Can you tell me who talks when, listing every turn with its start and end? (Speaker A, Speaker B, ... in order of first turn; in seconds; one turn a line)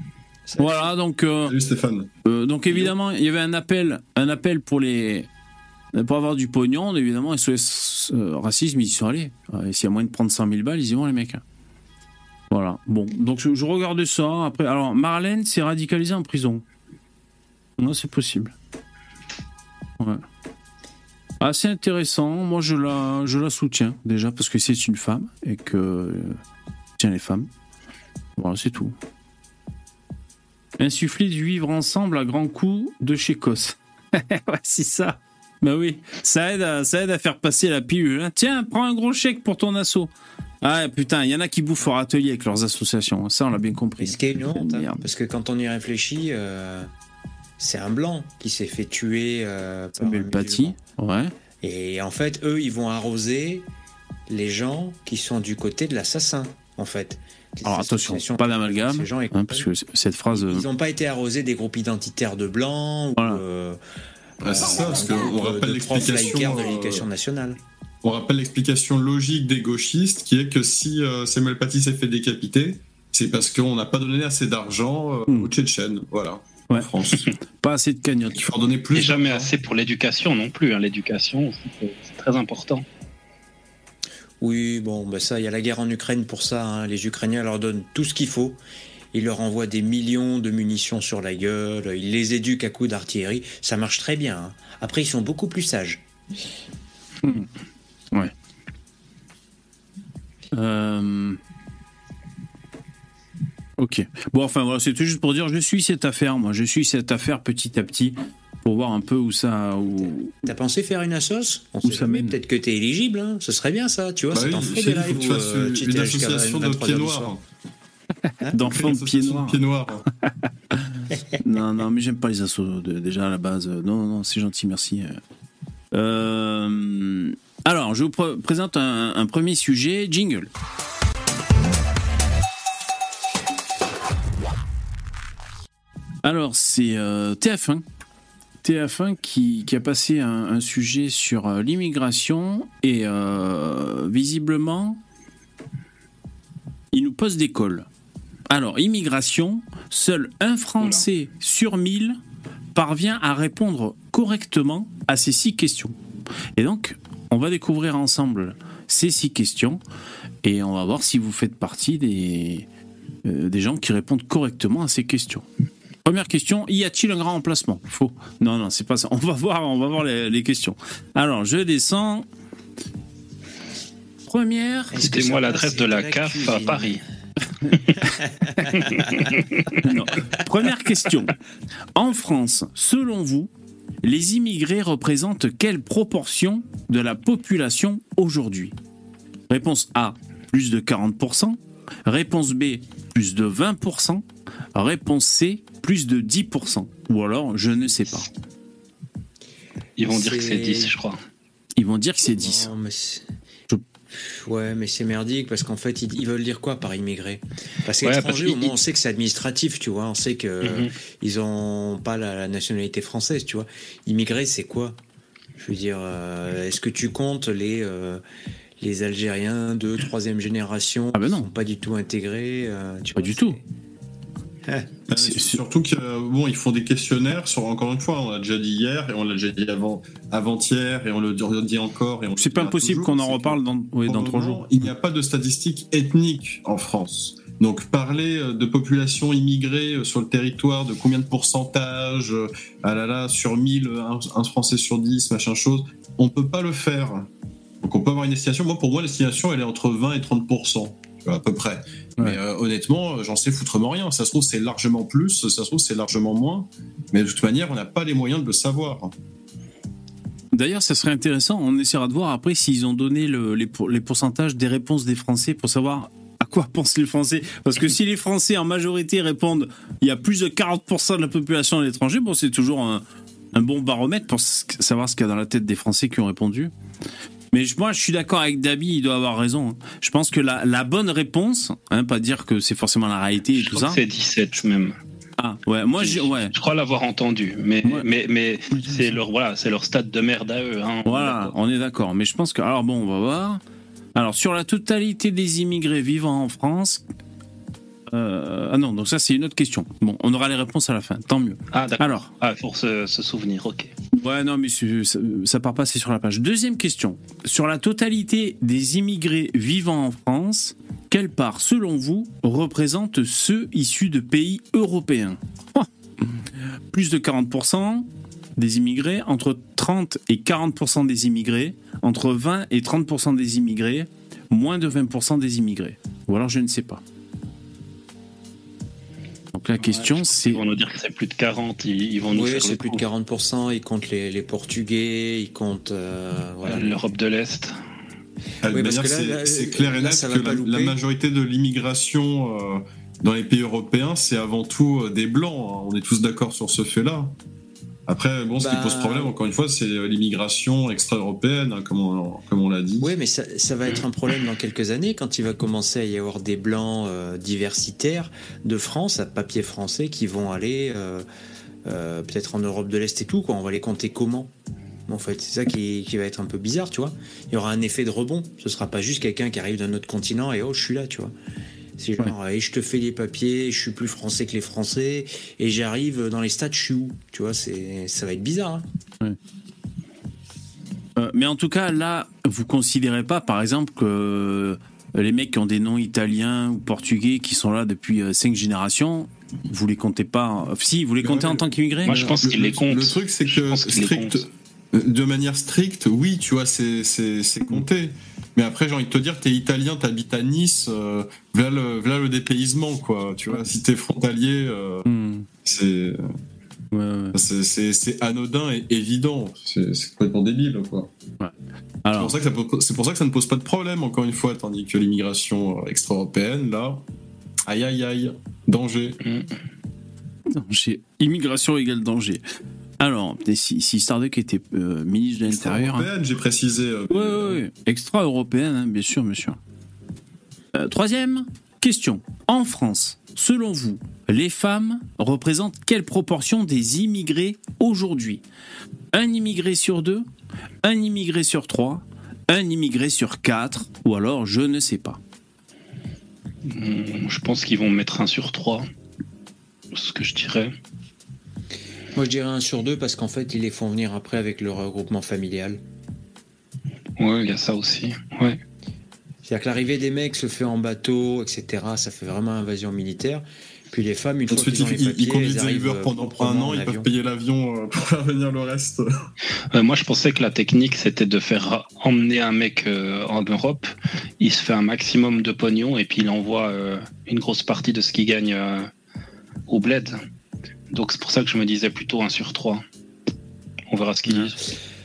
Speaker A: 0.5-0.9
Speaker B: 0.6-1.5
Speaker C: 1.4-2.1
Speaker B: 2.2-5.3
Speaker B: 5.9-11.4
Speaker B: 12.5-16.6
Speaker B: 17.8-18.5
Speaker B: 21.4-26.4
Speaker B: 27.0-27.5
Speaker B: 28.4-28.9
Speaker B: 30.8-40.1
Speaker B: 40.6-45.0
Speaker A: 44.0-46.9
Speaker A: 47.6-50.8
Speaker B: 50.0-51.3
Speaker A: 51.6-53.6
Speaker A: 54.3-59.7
Speaker B: 57.6-60.6
Speaker A: 60.3-63.8
Speaker B: 63.2-63.4
Speaker C: 64.4-67.1
Speaker A: 64.4-67.6
Speaker C: 68.0-77.3
Speaker B: 77.6-78.4
Speaker C: 78.3-79.5
Speaker D: 78.9-82.8
Speaker A: 84.4-88.6
Speaker A: 89.1-96.0
Speaker B: 100.5-101.4
Speaker B: 103.8-110.3
Speaker A: 110.4-117.3
Speaker B: 111.8-112.3
Speaker C: 114.3-117.4
Speaker B: 118.5-119.6
Speaker C: 118.6-120.0
Speaker B: 120.7-125.2
Speaker B: 125.9-130.5
Speaker B: 136.2-137.8
Speaker B: 138.6-145.0
Speaker B: 146.9-147.9
Speaker B: 148.5-152.2
Speaker B: 152.7-155.9
Speaker B: 156.6-159.8
Speaker B: 160.4-162.7
Speaker B: 163.2-165.4
Speaker B: 166.0-172.2
Speaker B: 174.3-175.0
Speaker A: 174.9-177.0
Speaker D: 175.0-177.0
Speaker D: 178.7-179.7
Speaker B: 179.8-181.3
Speaker B: 181.9-183.5
Speaker B: 184.0-188.7
Speaker B: 189.5-194.2
Speaker B: 194.7-198.3
Speaker D: 200.0-201.2
Speaker A: 200.1-200.9
Speaker B: 201.8-202.7
Speaker A: 202.2-203.2
Speaker A: 204.2-215.0
Speaker D: 208.0-208.8
Speaker D: 210.6-210.9
Speaker A: 215.6-218.2
Speaker A: 218.8-223.6
Speaker B: 221.1-221.5
Speaker B: 223.1-223.6
Speaker A: 224.7-224.9
Speaker C: 225.1-247.3
Speaker B: 225.1-225.6
Speaker B: 232.4-234.7
Speaker C: 247.8-259.1
Speaker B: 260.5-276.7
Speaker B: 277.5-284.0
Speaker D: 283.6-284.9
Speaker B: 285.4-286.5
Speaker D: 286.0-291.5
Speaker B: 288.7-289.1
Speaker B: 291.0-293.6
Speaker B: 294.1-297.0
Speaker B: 298.1-302.3
Speaker D: 301.7-303.9
Speaker B: 304.1-327.0
Speaker B: 329.5-330.6
Speaker D: 329.8-333.0
Speaker A: 332.3-337.0
Speaker D: 336.6-337.8
Speaker C: 338.6-347.3
Speaker A: 338.6-341.0
Speaker C: 348.1-353.1
Speaker A: 348.6-349.3
Speaker A: 353.0-361.2
Speaker A: 361.8-364.5
Speaker A: 365.1-371.3
Speaker A: 372.0-378.9
Speaker B: 381.1-392.4
Speaker C: 391.2-391.6
Speaker D: 392.1-394.4
Speaker C: 392.4-405.1
Speaker B: 405.0-405.5
Speaker C: 405.6-406.3
Speaker B: 406.9-407.4
Speaker C: 407.3-411.1
Speaker B: 411.4-412.4
Speaker C: 412.1-417.0
Speaker C: 417.7-419.2
Speaker D: 419.2-419.5
Speaker B: 420.5-422.4
Speaker B: 423.0-426.1
Speaker C: 425.4-427.6
Speaker B: 427.1-429.6
Speaker B: 430.7-438.4
Speaker B: 439.1-440.2
Speaker B: 440.8-445.2
Speaker D: 446.7-448.9
Speaker D: 449.9-450.7
Speaker A: 452.1-455.8
Speaker D: 457.2-458.6
Speaker A: 459.4-467.1
Speaker C: 464.5-469.3
Speaker D: 469.7-478.9
Speaker D: 479.7-480.2
Speaker D: 480.9-482.8
Speaker D: 483.9-484.6